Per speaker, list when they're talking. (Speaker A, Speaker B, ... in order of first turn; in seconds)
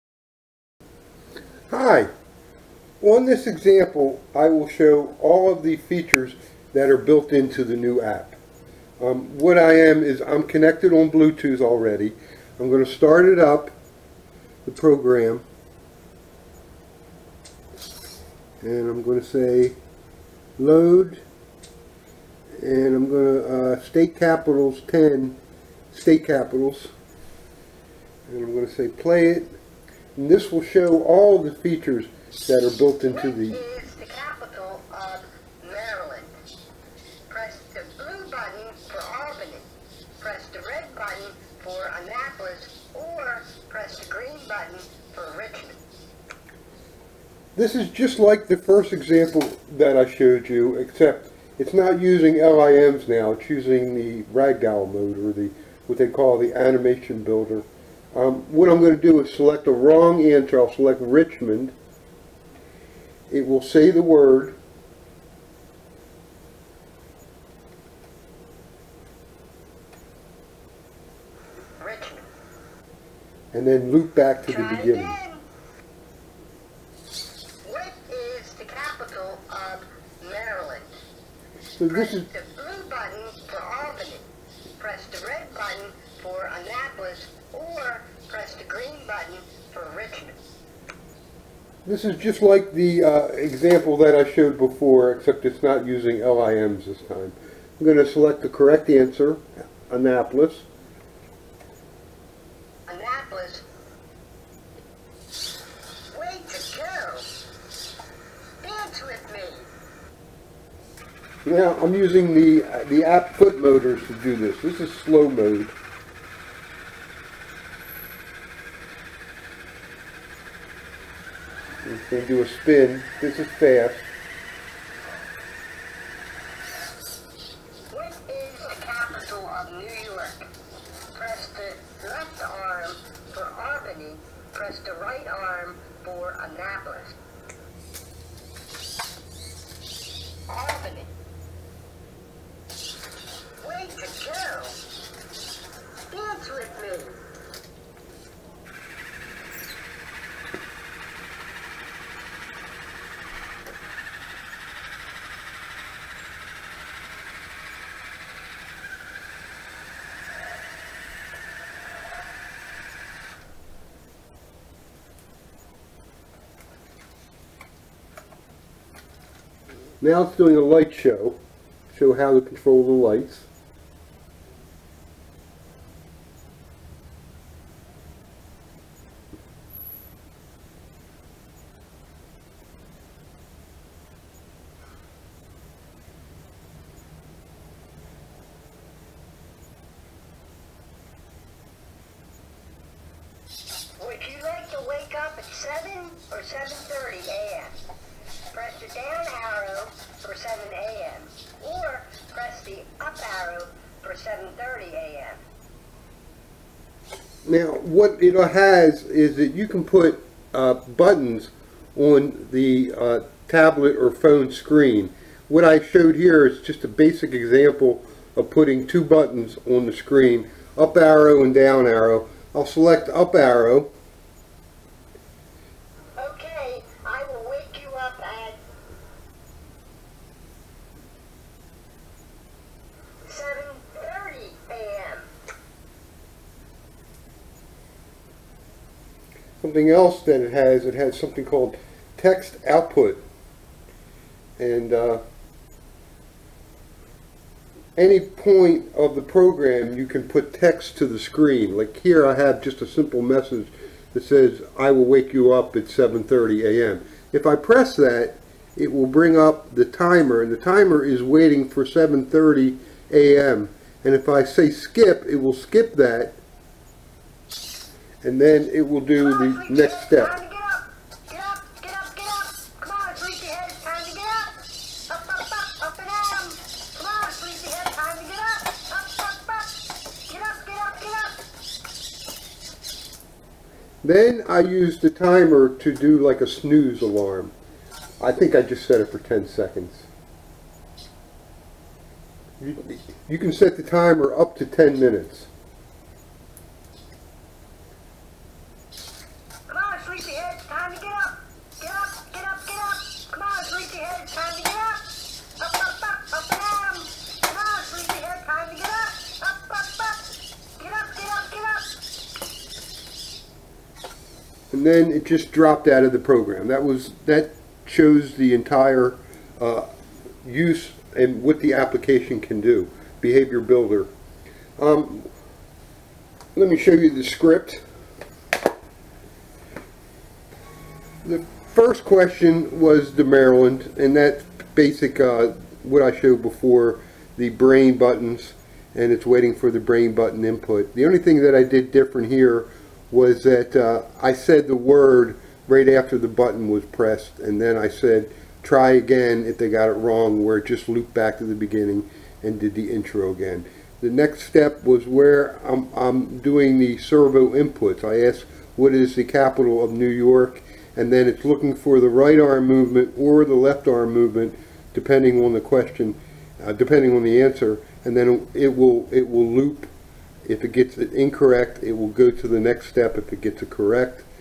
Speaker A: 1.7-2.1, 3.0-8.4, 9.0-13.7, 14.7-15.4, 18.6-19.8, 20.6-21.2, 22.6-25.4, 25.9-26.9, 28.3-29.5, 30.2-33.6, 47.6-61.8, 63.3-64.6, 73.5-75.2, 81.8-82.3, 91.8-100.7, 111.5-115.7, 121.8-124.1, 170.0-171.4, 171.9-173.5, 207.5-223.9, 239.6-243.2, 244.6-245.2, 248.0-266.4, 268.2-270.4, 284.0-287.5, 288.2-290.1, 292.6-295.5, 314.7-319.9, 320.4-324.1, 324.8-325.3, 326.6-327.8, 331.2-369.9, 370.4-374.3
Speaker B: 33.1-36.3, 37.3-39.7, 40.2-45.8, 71.8-72.3, 74.5-75.5, 77.6-80.9, 81.9-84.3, 84.8-90.4, 102.9-103.6, 106.1-107.3, 108.6-109.7, 127.9-130.5, 131.1-137.2, 140.5-141.1, 143.6-144.8, 146.1-147.2, 194.0-197.8, 198.5-205.4, 226.2-228.6, 233.2-235.3, 269.2-281.4, 299.7-310.2, 310.8-311.9